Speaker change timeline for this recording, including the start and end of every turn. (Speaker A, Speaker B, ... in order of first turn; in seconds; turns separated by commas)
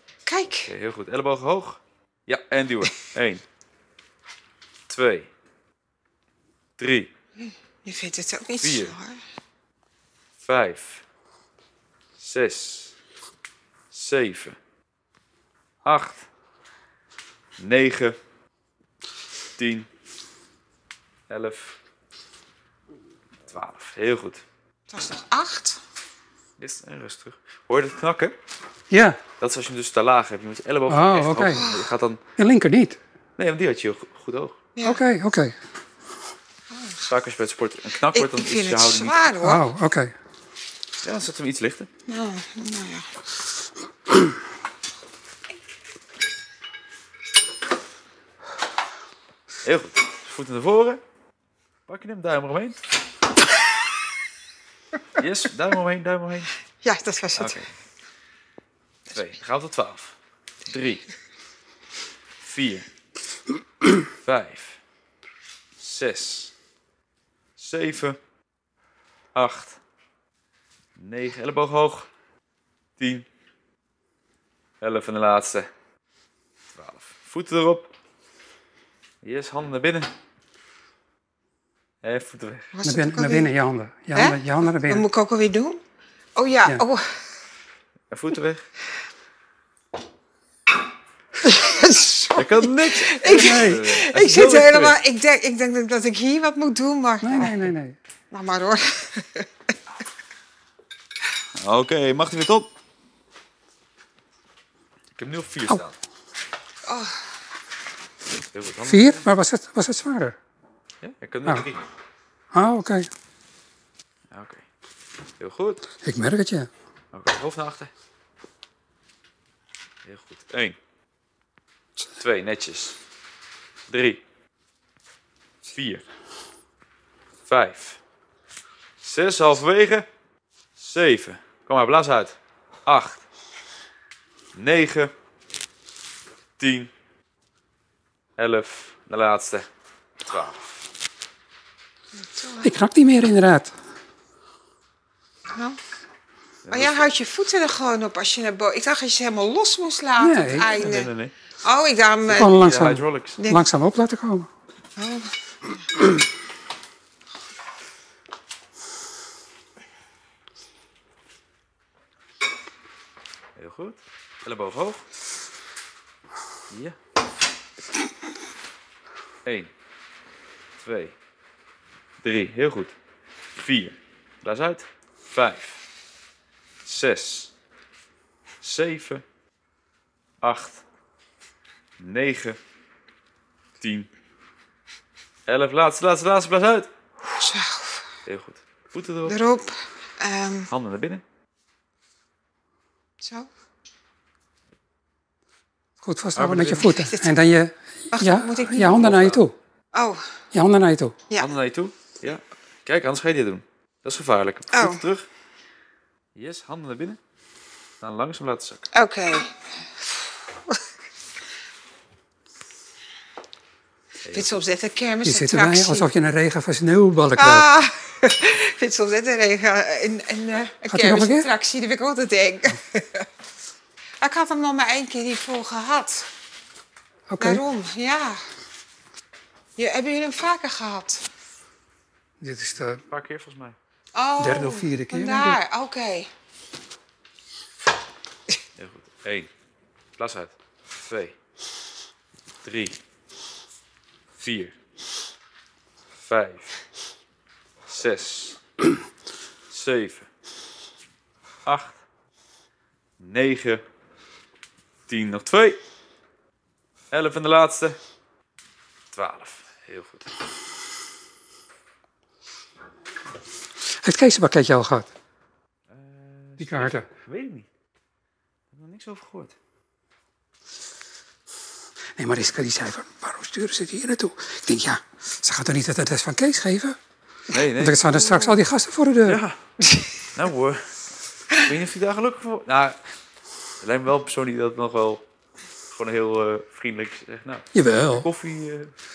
Speaker A: 0.2-0.7, Speaker B: 0.7-3.4, Speaker B: 4.9-5.3, Speaker B: 6.8-7.1, Speaker A: 7.4-9.2, Speaker B: 8.6-8.9, Speaker B: 10.4-11.0, Speaker B: 12.2-12.9, Speaker B: 13.9-14.6, Speaker B: 15.8-16.3, Speaker B: 17.6-18.1, Speaker B: 19.6-19.9, Speaker B: 21.3-21.8, Speaker B: 23.5-24.4, Speaker A: 24.9-25.8, Speaker B: 26.6-28.3, Speaker C: 28.9-29.2, Speaker B: 29.4-32.2, Speaker C: 30.9-31.6, Speaker A: 31.5-31.9, Speaker C: 32.4-33.0, Speaker B: 33.4-34.6, Speaker A: 34.8-35.0, Speaker C: 34.8-35.5, Speaker A: 36.7-37.0, Speaker B: 37.1-39.2, Speaker A: 38.1-39.6, Speaker C: 39.4-40.1, Speaker B: 41.0-41.9, Speaker A: 42.1-43.1, Speaker B: 49.6-51.0, Speaker B: 51.9-52.8, Speaker B: 55.2-56.5, Speaker A: 56.8-57.6, Speaker B: 57.4-57.7, Speaker B: 59.1-60.1, Speaker B: 60.7-61.1, Speaker B: 62.4-62.9, Speaker B: 64.2-64.8, Speaker B: 65.8-66.5, Speaker B: 67.6-68.2, Speaker B: 69.3-69.8, Speaker B: 71.0-72.1, Speaker B: 73.0-73.2, Speaker B: 74.8-75.7, Speaker B: 76.7-77.9, Speaker B: 79.2-80.1, Speaker B: 82.0-82.7, Speaker A: 82.7-83.5, Speaker C: 82.8-85.0, Speaker A: 84.1-85.8, Speaker A: 86.3-87.3, Speaker B: 88.1-88.6, Speaker A: 91.4-97.7, Speaker B: 92.3-95.0, Speaker C: 93.4-93.8, Speaker C: 97.2-98.0, Speaker A: 98.3-99.5, Speaker B: 101.5-102.7, Speaker B: 105.1-105.9, Speaker A: 106.8-107.3, Speaker B: 108.5-109.2, Speaker C: 108.8-110.4, Speaker B: 111.0-111.8, Speaker C: 112.5-113.1, Speaker B: 114.3-114.6, Speaker B: 115.4-115.8, Speaker C: 116.0-116.7, Speaker B: 117.1-117.9, Speaker B: 120.0-120.8, Speaker B: 122.2-123.0, Speaker B: 123.9-124.2, Speaker B: 125.7-126.0, Speaker B: 127.5-128.0, Speaker B: 129.0-130.1, Speaker B: 130.8-133.2, Speaker B: 134.5-135.1, Speaker B: 136.6-136.9, Speaker B: 138.4-139.7, Speaker B: 140.2-140.7, Speaker A: 142.2-142.7, Speaker C: 142.6-143.7, Speaker B: 146.6-147.1, Speaker A: 146.7-152.5, Speaker C: 150.2-150.7, Speaker B: 150.6-151.3, Speaker B: 152.2-153.4, Speaker C: 152.4-154.5, Speaker A: 153.4-153.6, Speaker A: 154.9-155.3, Speaker B: 163.6-165.0, Speaker B: 166.7-167.0, Speaker B: 169.4-169.7, Speaker B: 170.8-171.1, Speaker B: 172.2-172.9, Speaker B: 173.6-175.8, Speaker B: 176.8-177.5, Speaker B: 178.6-179.2, Speaker B: 180.4-180.8, Speaker B: 182.0-182.6, Speaker B: 183.8-184.1, Speaker B: 185.5-186.9, Speaker A: 187.4-188.0, Speaker B: 188.2-189.4, Speaker A: 189.3-190.7, Speaker B: 190.7-191.2, Speaker A: 193.2-193.5, Speaker C: 196.0-199.5, Speaker B: 196.3-197.1, Speaker A: 196.8-197.5, Speaker A: 198.1-199.1, Speaker B: 198.7-199.4, Speaker A: 199.9-200.3, Speaker C: 200.5-201.2, Speaker B: 201.4-205.2, Speaker A: 204.7-205.0, Speaker B: 206.3-207.2, Speaker B: 208.0-208.9, Speaker A: 208.9-210.8, Speaker B: 214.2-214.6, Speaker A: 214.3-216.1, Speaker C: 215.2-217.7, Speaker A: 217.3-223.3, Speaker C: 220.9-221.5, Speaker A: 224.2-226.3, Speaker C: 227.3-227.6, Speaker A: 227.4-228.4, Speaker A: 229.8-231.2, Speaker C: 232.4-233.0, Speaker B: 233.0-233.8, Speaker A: 234.1-236.3, Speaker C: 234.4-235.6, Speaker B: 238.8-239.5, Speaker B: 240.2-241.3, Speaker B: 242.6-243.0, Speaker B: 244.4-244.7, Speaker B: 246.2-246.8, Speaker B: 247.9-248.6, Speaker B: 249.7-250.3, Speaker B: 251.6-252.0, Speaker B: 253.2-253.8, Speaker B: 255.1-255.8, Speaker B: 257.1-258.0, Speaker B: 259.1-260.3, Speaker C: 264.0-265.1, Speaker B: 265.9-267.7, Speaker C: 266.6-267.1, Speaker B: 268.7-269.5, Speaker C: 272.1-277.0, Speaker B: 277.5-278.1, Speaker C: 277.5-279.4, Speaker A: 278.1-278.6, Speaker B: 279.2-279.6, Speaker B: 280.3-283.0, Speaker B: 283.8-285.2, Speaker B: 285.9-288.9, Speaker C: 287.7-288.3